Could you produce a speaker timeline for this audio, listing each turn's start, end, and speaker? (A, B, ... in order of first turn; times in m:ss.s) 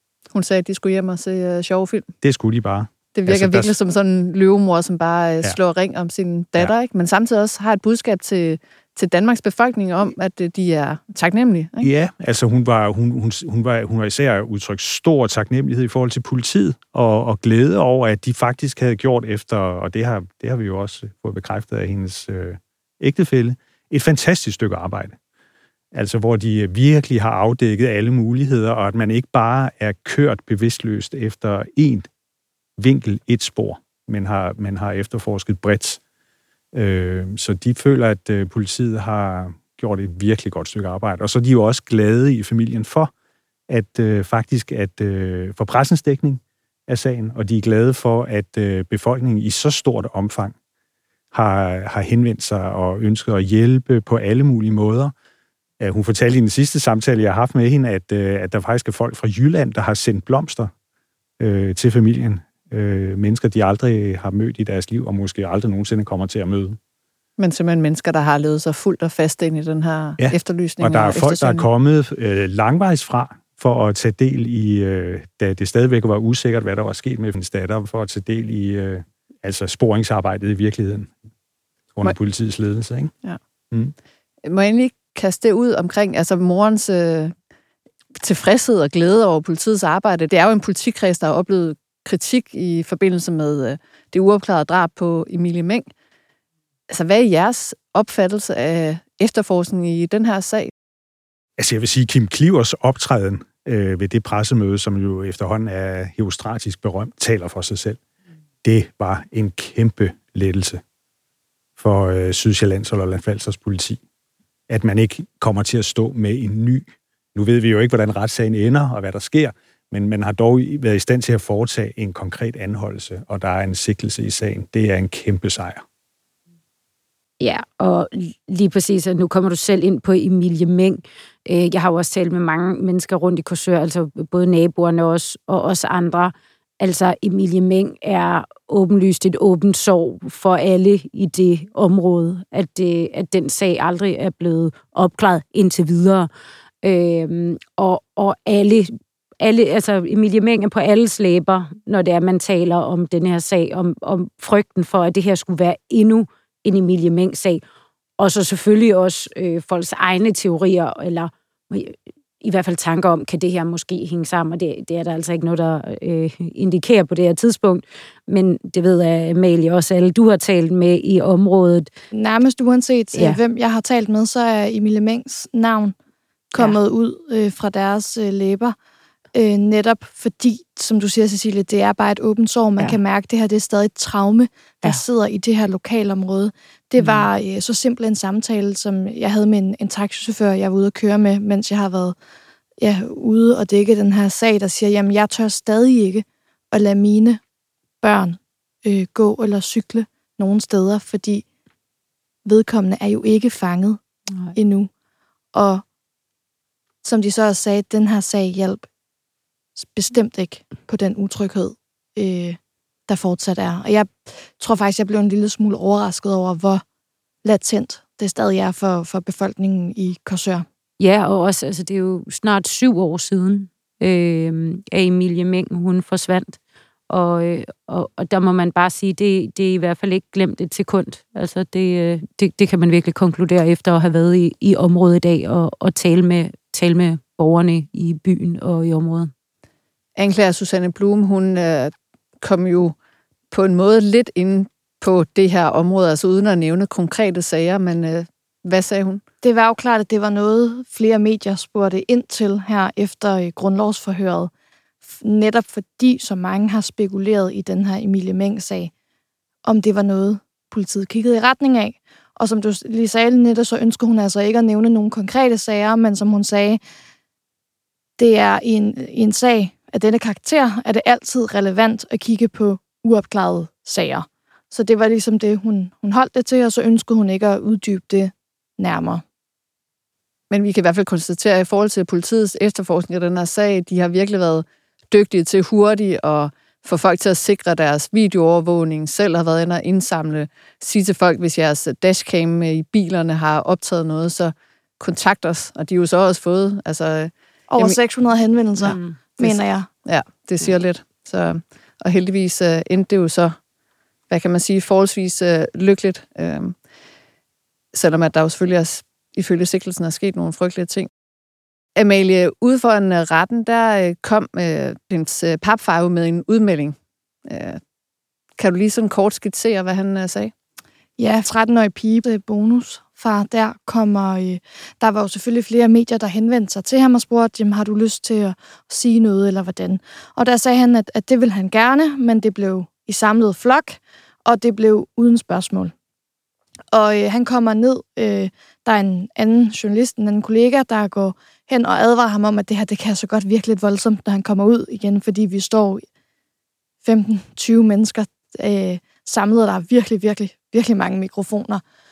0:00.3-0:02.1 A
0:02.2-0:03.7 B
0:03.1-0:11.9 A
0:11.8-0:25.2 B
0:25.9-0:32.1 B
0:32.8-0:36.0 B
0:36.7-0:43.1 B
0:43.7-0:50.6 B
0:51.3-0:55.1 B
0:55.8-1:00.7 B
1:01.4-1:06.8 B
1:07.4-1:11.6 A
1:10.2-1:21.1 B
1:22.0-1:23.1 B
1:24.4-1:27.3 A
1:28.1-1:35.9 A
1:36.9-1:40.7 A
1:41.6-1:48.0 B
1:48.6-1:50.8 B
1:51.8-1:54.0 B
1:54.7-2:05.8 B
2:07.4-2:26.3 C
2:26.8-2:37.6 C
2:38.2-2:51.9 C
2:52.1-2:56.0 D
2:53.1-2:53.4 C
2:56.6-2:58.8 D
2:59.3-3:12.2 D
3:12.8-3:17.4 D
3:18.0-3:21.4 D
3:22.4-3:24.0 D
3:24.6-3:24.9 D
3:25.5-3:25.8 D
3:27.0-3:28.8 D
3:29.8-3:36.8 D
3:37.4-3:40.7 D
3:41.0-3:46.6 C
3:47.1-3:59.3 C
4:00.2-4:03.0 A
4:03.5-4:09.2 A
4:09.4-4:14.5 D
4:15.2-4:18.9 D
4:19.6-4:26.8 D
4:28.2-4:39.2 D
4:40.5-4:58.0 A
4:57.7-4:59.9 D
4:58.8-4:59.2 C
4:58.8-5:03.6 A
5:04.3-5:06.8 A
5:07.9-5:11.1 A
5:12.0-5:17.8 A
5:18.6-5:20.5 A
5:21.2-5:35.9 D
5:36.9-5:46.0 D
5:47.0-5:51.8 D